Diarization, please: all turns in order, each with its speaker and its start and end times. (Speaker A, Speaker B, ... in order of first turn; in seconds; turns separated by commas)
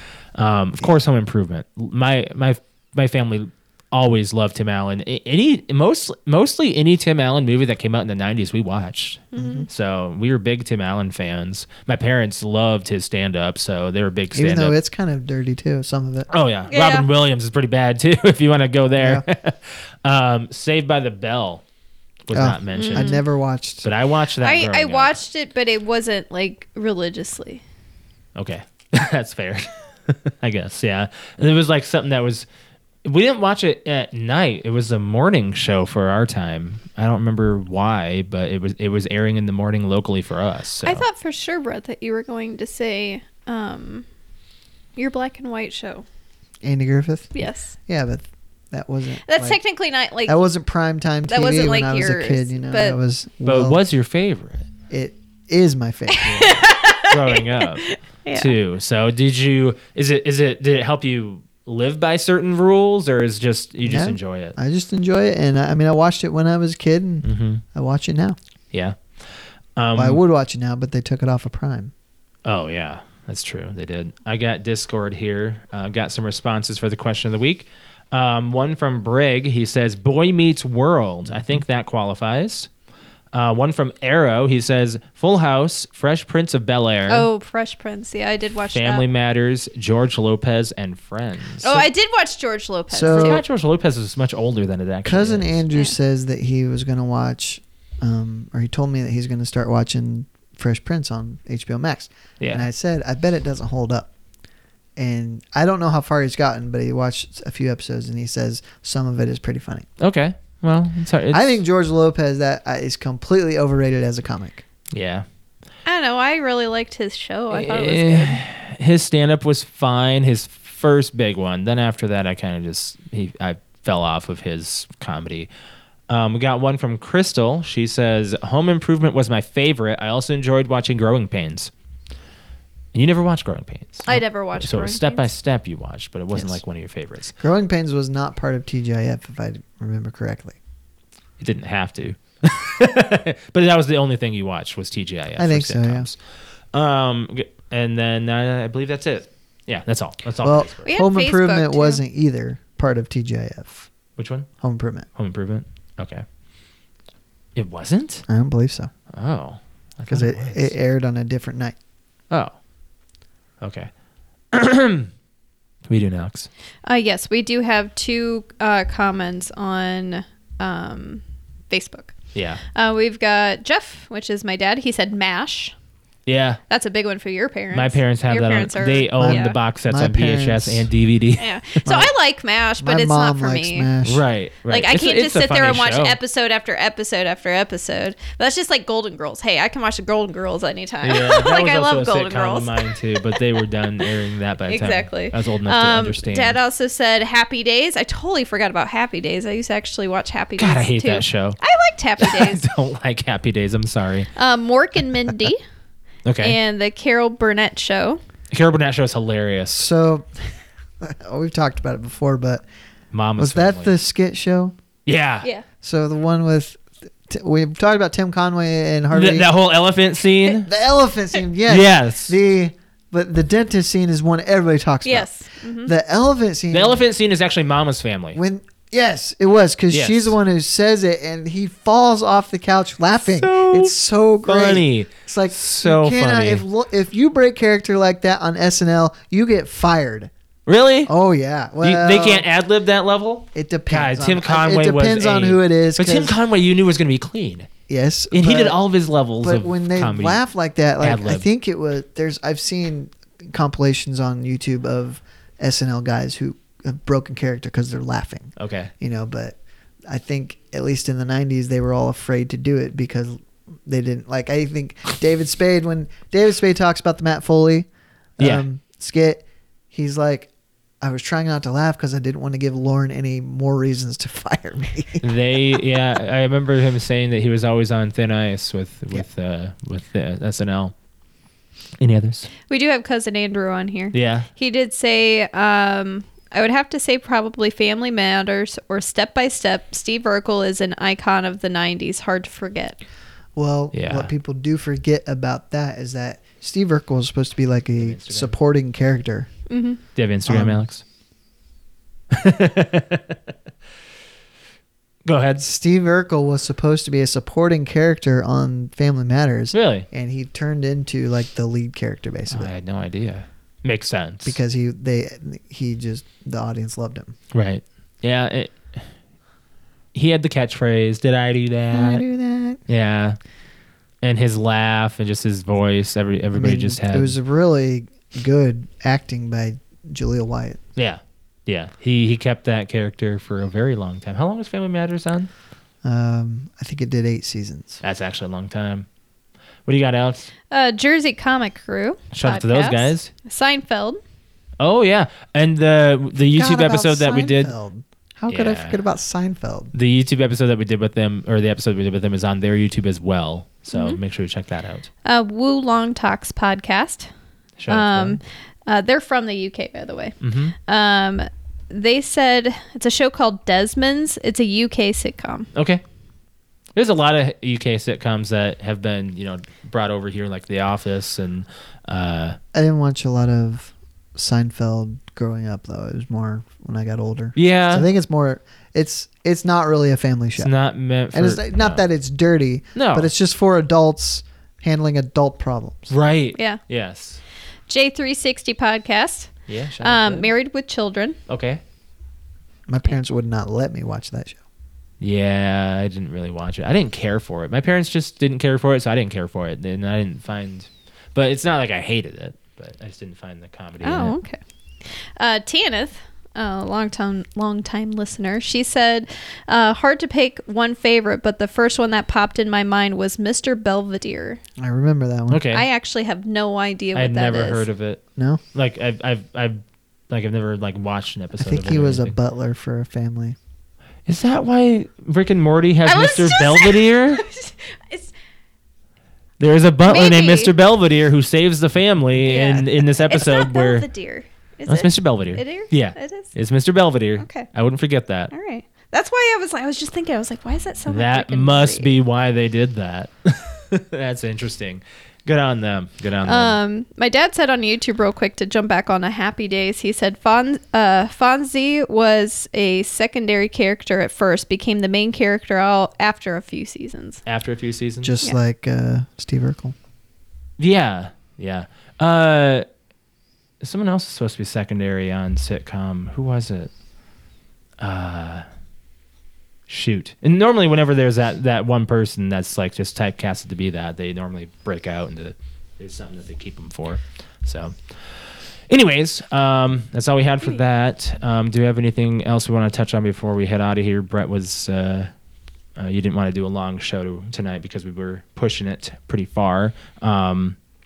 Speaker A: 0.3-14.8, Speaker B: 9.3-9.7, Speaker C: 9.3-9.7, Speaker C: 14.3-16.3, Speaker A: 16.3-21.6, Speaker B: 16.7-17.1, Speaker C: 19.0-19.2, Speaker A: 22.3-23.2, Speaker C: 22.3-23.9, Speaker B: 22.8-23.2, Speaker A: 23.8-25.2, Speaker B: 24.4-27.6, Speaker A: 28.4-32.5, Speaker A: 33.0-41.0, Speaker B: 40.9-44.0, Speaker B: 45.0-46.0, Speaker C: 46.6-47.3, Speaker B: 47.4-47.8, Speaker C: 47.9-49.6, Speaker B: 49.3-50.4, Speaker C: 50.3-53.8, Speaker B: 51.3-53.0, Speaker A: 53.5-54.7, Speaker C: 54.9-56.5, Speaker B: 56.1-58.5, Speaker A: 56.2-64.6, Speaker C: 63.8-68.4, Speaker A: 67.2-67.6, Speaker A: 68.7-69.0, Speaker A: 69.8-70.2, Speaker C: 70.0-71.9, Speaker A: 72.5-82.7, Speaker A: 83.3-87.3, Speaker B: 87.1-89.0, Speaker A: 88.7-91.9, Speaker B: 91.6-93.4, Speaker C: 92.9-93.4, Speaker A: 93.1-95.6, Speaker C: 95.0-104.1, Speaker A: 102.4-102.7, Speaker C: 105.0-109.9, Speaker A: 110.0-111.6, Speaker C: 111.3-114.6, Speaker A: 114.9-115.2, Speaker B: 115.8-118.4, Speaker A: 117.5-125.5, Speaker A: 126.1-131.7, Speaker A: 132.9-137.3, Speaker B: 134.1-135.3, Speaker C: 136.3-136.6, Speaker C: 137.4-140.6, Speaker A: 141.4-146.2, Speaker C: 145.4-146.1, Speaker A: 146.7-150.9, Speaker C: 150.4-153.9, Speaker B: 150.8-152.0, Speaker A: 154.2-154.5, Speaker C: 154.6-155.1, Speaker A: 155.2-156.2, Speaker A: 157.6-158.2, Speaker C: 158.3-158.9, Speaker A: 159.1-160.7, Speaker C: 160.1-161.8, Speaker A: 162.3-162.6, Speaker A: 163.6-163.9, Speaker A: 164.5-165.1, Speaker A: 165.9-166.5, Speaker B: 166.9-175.7, Speaker A: 172.3-172.6, Speaker A: 176.3-176.6, Speaker B: 176.7-179.6, Speaker A: 177.7-181.9, Speaker C: 179.2-180.9, Speaker B: 181.4-183.9, Speaker C: 181.8-182.1, Speaker C: 182.8-184.2, Speaker A: 184.0-186.2, Speaker B: 184.7-193.4, Speaker A: 191.0-196.6, Speaker B: 194.7-202.6, Speaker A: 200.6-201.6, Speaker A: 202.2-204.3, Speaker B: 204.4-205.6, Speaker A: 206.2-206.6, Speaker B: 206.4-208.2, Speaker A: 208.5-209.9, Speaker C: 209.8-210.4, Speaker C: 211.0-212.6, Speaker A: 213.1-213.9, Speaker C: 213.4-214.7, Speaker A: 215.1-215.5, Speaker C: 215.8-219.5, Speaker A: 219.1-220.7, Speaker C: 220.7-225.3, Speaker A: 221.7-222.4, Speaker B: 225.0-225.9, Speaker C: 225.8-227.0, Speaker A: 226.7-228.4, Speaker C: 228.3-240.3, Speaker A: 229.9-230.4, Speaker A: 233.3-236.6, Speaker A: 240.7-241.1, Speaker C: 241.1-242.5, Speaker A: 241.8-247.7, Speaker C: 243.5-246.4, Speaker C: 247.9-248.8, Speaker A: 248.3-250.4, Speaker C: 249.4-259.6, Speaker A: 251.0-251.4, Speaker A: 258.6-258.9, Speaker C: 260.1-270.5, Speaker A: 268.4-268.7, Speaker C: 271.0-275.2, Speaker A: 275.2-280.9, Speaker A: 282.0-282.5, Speaker B: 282.7-293.0, Speaker A: 284.1-284.5, Speaker C: 293.6-299.5, Speaker A: 293.9-294.3, Speaker A: 298.0-298.5, Speaker B: 299.7-300.0, Speaker A: 300.1-301.0, Speaker C: 300.5-300.8, Speaker A: 302.3-303.4, Speaker A: 305.2-305.6, Speaker C: 305.6-312.7, Speaker A: 309.7-310.1, Speaker A: 312.5-314.6, Speaker C: 314.4-317.4, Speaker A: 317.5-319.0, Speaker A: 320.1-322.2, Speaker C: 321.9-322.8, Speaker A: 322.9-323.4, Speaker A: 324.2-327.4, Speaker C: 326.5-330.8, Speaker A: 331.0-335.5, Speaker C: 336.0-338.0, Speaker A: 338.0-339.1, Speaker A: 339.9-340.5, Speaker B: 340.7-344.2, Speaker A: 342.3-343.3, Speaker A: 344.8-347.7, Speaker C: 346.5-349.9, Speaker A: 348.5-349.0, Speaker A: 349.9-355.1, Speaker B: 353.9-354.2, Speaker B: 355.2-357.3, Speaker A: 357.8-358.4, Speaker B: 357.9-365.7, Speaker A: 360.4-360.8, Speaker A: 365.7-366.0, Speaker A: 366.9-372.6, Speaker C: 372.7-380.7, Speaker A: 377.6-378.1, Speaker A: 380.6-382.0, Speaker C: 381.3-386.1, Speaker A: 382.9-383.3, Speaker A: 386.1-387.4, Speaker B: 386.6-386.8, Speaker B: 387.9-391.4, Speaker A: 389.7-390.5, Speaker A: 391.5-391.8, Speaker C: 392.9-394.6, Speaker A: 395.2-404.4, Speaker B: 404.0-404.6, Speaker B: 405.4-414.6, Speaker C: 414.8-415.6, Speaker A: 415.5-415.9, Speaker B: 415.7-417.9, Speaker A: 417.1-418.2, Speaker A: 418.7-422.4, Speaker C: 421.6-423.6, Speaker A: 424.3-427.4, Speaker B: 426.1-428.3, Speaker A: 429.6-434.1, Speaker B: 430.1-430.7, Speaker B: 432.4-436.5, Speaker A: 434.9-438.5, Speaker B: 437.4-437.7, Speaker B: 438.5-442.1, Speaker A: 441.1-446.8, Speaker B: 446.5-457.4, Speaker A: 457.5-458.3, Speaker C: 458.2-459.9, Speaker A: 460.8-462.9, Speaker A: 463.8-466.9, Speaker A: 468.0-468.7, Speaker A: 469.9-478.0, Speaker A: 478.9-485.3, Speaker A: 486.0-490.8